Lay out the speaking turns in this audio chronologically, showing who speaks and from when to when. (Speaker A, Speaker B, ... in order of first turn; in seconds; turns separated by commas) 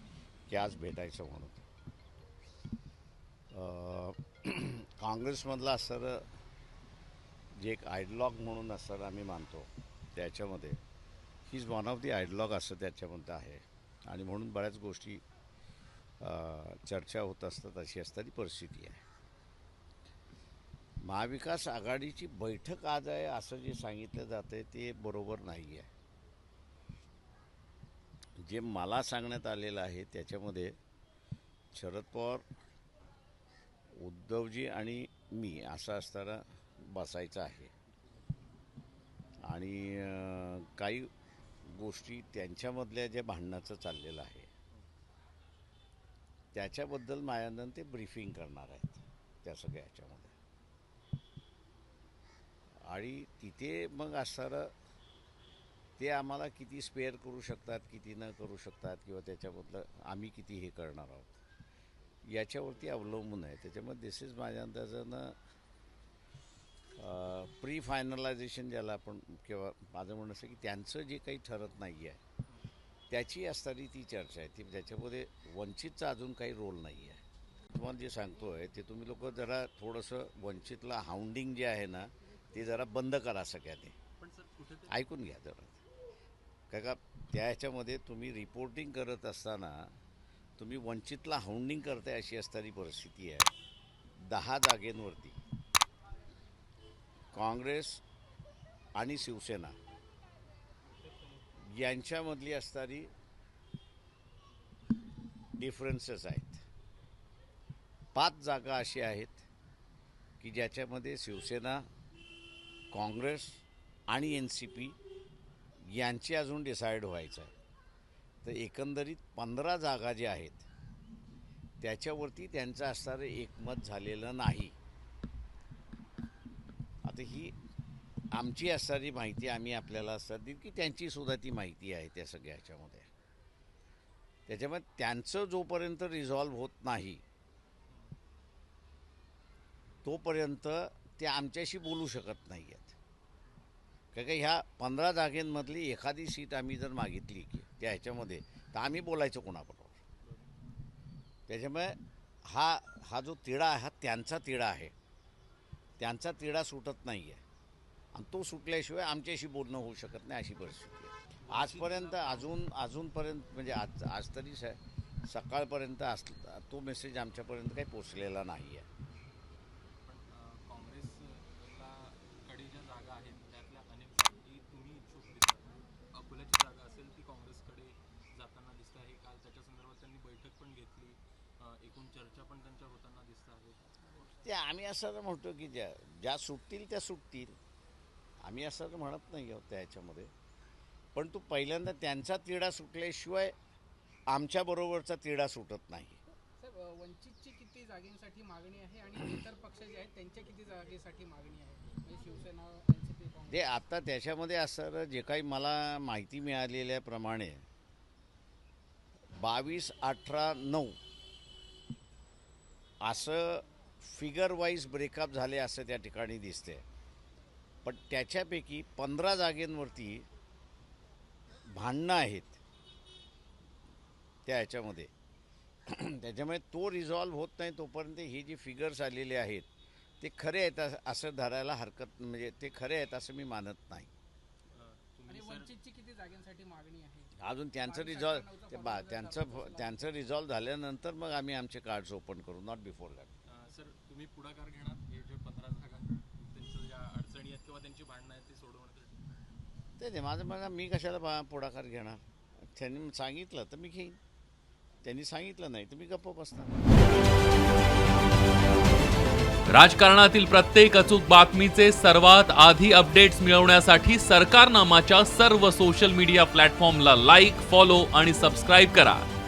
Speaker A: 0.5-1.6, Speaker A: 3.5-6.2, Speaker A: 7.6-10.8, Speaker A: 11.5-15.2, Speaker A: 16.2-19.0, Speaker A: 21.0-25.9, Speaker A: 28.4-30.8, Speaker A: 31.7-32.5, Speaker A: 33.9-37.7, Speaker B: 38.0-38.3, Speaker A: 39.4-41.1, Speaker A: 41.6-44.5, Speaker A: 46.5-50.3, Speaker A: 52.8-54.7, Speaker A: 56.0-61.3, Speaker A: 62.2-65.4, Speaker A: 67.0-72.2, Speaker A: 73.1-84.0, Speaker B: 84.2-85.1, Speaker A: 84.9-85.8, Speaker A: 86.7-89.9, Speaker A: 90.6-93.5, Speaker A: 94.2-95.4, Speaker A: 97.3-98.0, Speaker A: 98.9-99.8, Speaker B: 101.0-101.4, Speaker A: 101.6-103.1, Speaker A: 105.5-106.6, Speaker A: 108.1-109.5, Speaker A: 110.4-111.8, Speaker A: 112.9-115.0, Speaker A: 115.8-117.5, Speaker A: 118.4-120.7, Speaker A: 121.8-124.7, Speaker A: 127.0-127.5, Speaker A: 128.3-133.1, Speaker A: 134.5-137.2, Speaker B: 137.9-138.2, Speaker A: 140.0-142.9, Speaker B: 143.4-143.7, Speaker A: 144.1-150.0, Speaker B: 150.2-150.5, Speaker A: 151.5-154.9, Speaker A: 156.0-157.4, Speaker A: 158.1-168.8, Speaker B: 161.3-162.6, Speaker B: 170.0-184.2, Speaker A: 184.4-187.6, Speaker A: 188.4-190.3, Speaker A: 191.1-193.5, Speaker A: 194.3-196.2, Speaker C: 196.6-203.7, Speaker A: 203.5-207.6, Speaker A: 209.4-211.0, Speaker A: 213.0-216.8, Speaker A: 217.8-220.3, Speaker A: 221.7-222.6, Speaker A: 224.4-225.1, Speaker A: 225.9-229.7, Speaker A: 230.2-234.1, Speaker B: 234.7-235.7, Speaker C: 235.3-240.0, Speaker A: 237.4-243.3, Speaker B: 243.4-249.2, Speaker A: 250.0-254.2, Speaker A: 255.0-256.9, Speaker D: 259.7-269.3